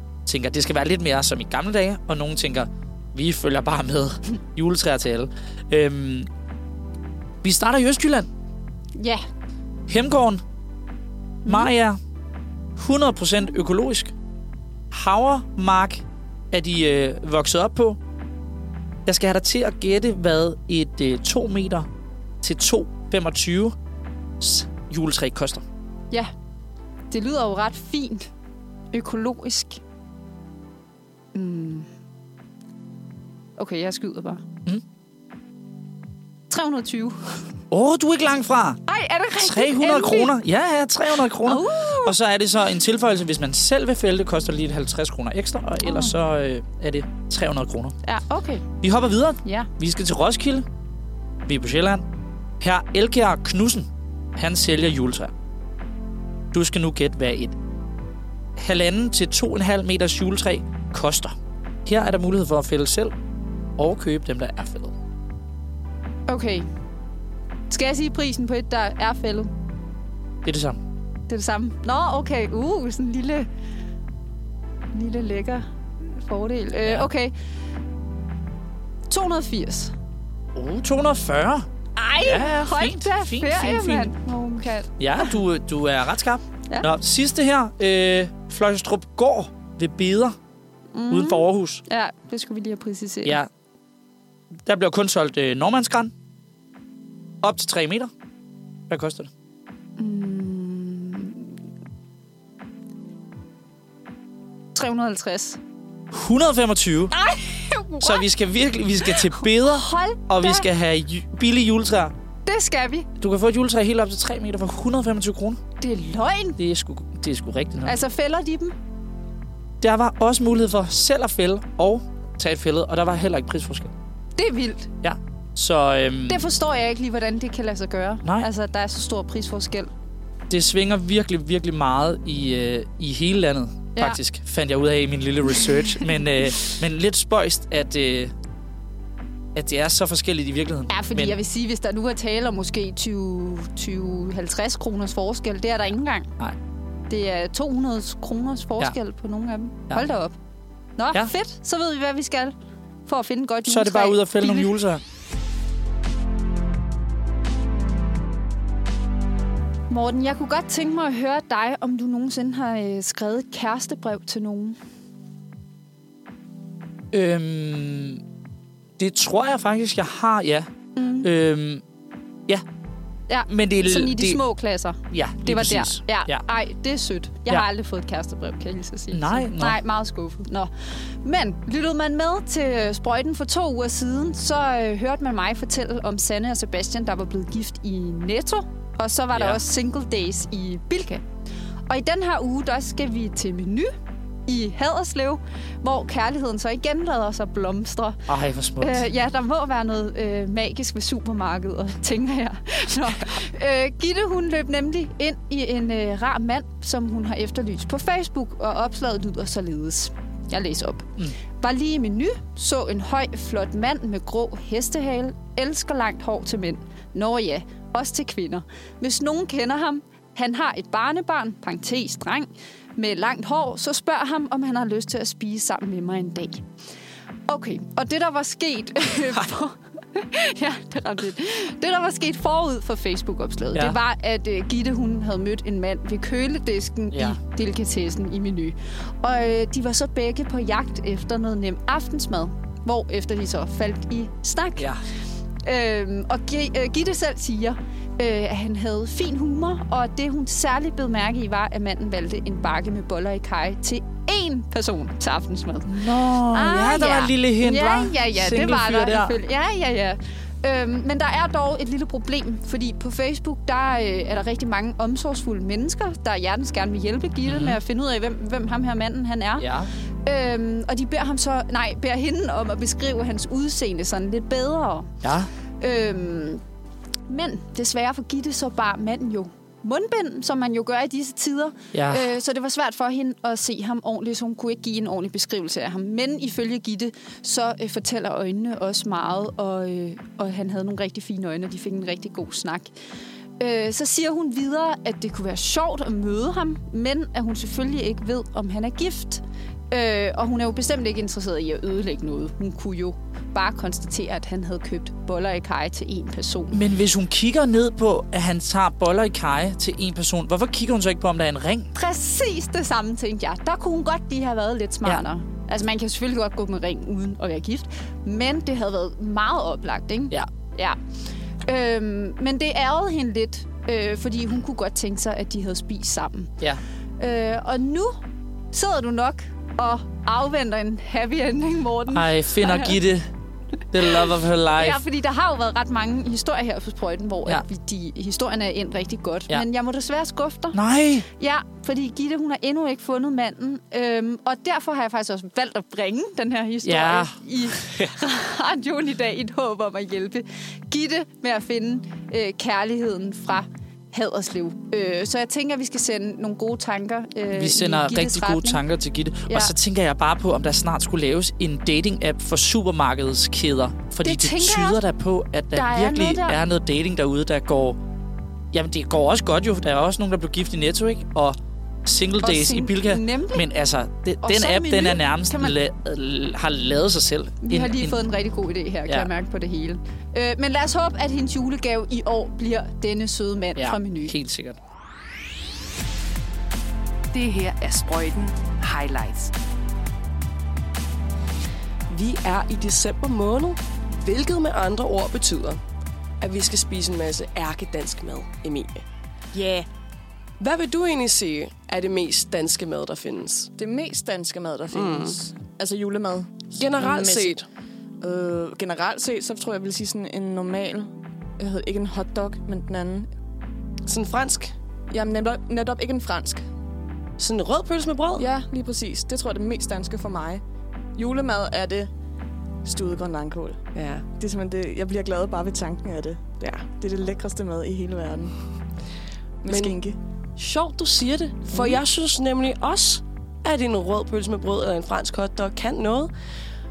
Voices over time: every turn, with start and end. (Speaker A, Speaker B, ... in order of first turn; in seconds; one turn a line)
Speaker A: 0.2-6.3
Speaker A: 7.4-8.3
Speaker B: 8.9-9.2
Speaker A: 9.9-10.4
Speaker B: 11.4-11.7
Speaker A: 11.4-12.0
Speaker A: 12.8-14.1
Speaker A: 14.9-18.0
Speaker A: 19.1-21.9
Speaker A: 22.4-23.8
Speaker A: 24.4-25.6
Speaker B: 27.1-28.3
Speaker B: 28.9-29.8
Speaker B: 31.3-31.9
Speaker B: 33.6-34.4
Speaker B: 36.5-37.5
Speaker A: 37.7-38.8
Speaker B: 38.9-40.3
Speaker A: 39.3-47.9
Speaker B: 41.4-42.1
Speaker B: 45.8-46.1
Speaker B: 48.0-48.6
Speaker A: 48.8-50.6
Speaker B: 49.4-49.7
Speaker A: 51.5-52.0
Speaker A: 52.6-55.3
Speaker A: 56.5-57.5
Speaker A: 58.6-63.1
Speaker A: 63.8-64.9
Speaker B: 66.3-66.7
Speaker B: 67.7-69.5
Speaker A: 70.4-70.8
Speaker B: 71.3-73.5
Speaker B: 74.9-77.3
Speaker A: 76.8-77.1
Speaker B: 79.1-79.9
Speaker A: 80.5-81.7
Speaker B: 82.0-85.4
Speaker A: 82.2-84.1
Speaker A: 85.0-90.4
Speaker B: 90.9-93.4
Speaker A: 91.1-91.8
Speaker A: 93.2-93.5
Speaker A: 94.6-96.1
Speaker A: 97.4-98.1
Speaker A: 98.9-99.3
Speaker B: 100.0-101.5
Speaker B: 104.7-105.6
Speaker A: 106.1-107.1
Speaker B: 107.1-108.2
Speaker A: 108.0-112.1
Speaker B: 109.0-110.7
Speaker B: 112.5-113.1
Speaker A: 113.2-115.6
Speaker B: 115.8-116.6
Speaker A: 116.6-118.0
Speaker B: 117.8-118.7
Speaker A: 119.8-123.9
Speaker B: 124.4-124.9
Speaker A: 125.0-126.5
Speaker B: 126.3-129.9
Speaker A: 130.5-138.3
Speaker A: 139.5-141.3
Speaker B: 140.9-146.3
Speaker B: 147.1-150.3
Speaker B: 151.0-152.5
Speaker B: 153.1-154.7
Speaker A: 153.7-155.0
Speaker B: 159.9-164.8
Speaker A: 167.1-168.2
Speaker A: 169.0-170.7
Speaker B: 170.9-171.3
Speaker A: 171.2-171.8
Speaker B: 173.3-191.2
Speaker A: 173.5-174.4
Speaker A: 175.1-176.4
Speaker A: 179.1-179.8
Speaker A: 189.3-189.6
Speaker B: 191.9-193.9
Speaker B: 194.5-198.3
Speaker A: 198.3-199.0
Speaker B: 198.8-226.6
Speaker B: 227.5-244.9
Speaker A: 237.1-237.4
Speaker B: 245.6-269.7
Speaker A: 255.8-259.4
Speaker A: 267.4-267.8
Speaker A: 269.6-269.9
Speaker B: 270.2-275.2
Speaker A: 275.2-275.5
Speaker B: 275.8-276.6
Speaker B: 277.3-292.9
Speaker A: 281.9-282.3
Speaker B: 293.6-306.8
Speaker A: 306.7-311.9
Speaker B: 311.9-321.0
Speaker B: 321.6-326.5
Speaker B: 327.2-328.2
Speaker B: 328.7-333.0
Speaker A: 332.1-333.2
Speaker A: 333.9-335.0
Speaker B: 334.2-358.8
Speaker A: 340.7-341.3
Speaker A: 346.8-348.1
Speaker A: 357.5-368.0
Speaker B: 359.5-359.7
Speaker B: 364.2-365.0
Speaker B: 365.7-366.6
Speaker A: 368.7-378.1
Speaker B: 372.4-373.7
Speaker B: 374.4-375.8
Speaker B: 377.6-384.3
Speaker A: 383.8-384.8
Speaker C: 387.3-389.5
Speaker D: 392.1-395.8
Speaker D: 396.4-399.0
Speaker E: 399.5-399.8
Speaker D: 400.6-403.7
Speaker E: 403.8-407.5
Speaker D: 404.9-405.4
Speaker D: 406.7-407.6
Speaker E: 408.2-413.3
Speaker D: 414.1-414.7
Speaker E: 415.1-416.6
Speaker D: 417.4-418.5
Speaker E: 418.4-420.6
Speaker E: 421.1-422.1
Speaker E: 422.8-423.8
Speaker D: 423.9-424.2
Speaker E: 424.4-428.6
Speaker E: 429.6-430.1
Speaker D: 429.6-429.9
Speaker D: 430.6-436.3
Speaker E: 431.7-432.0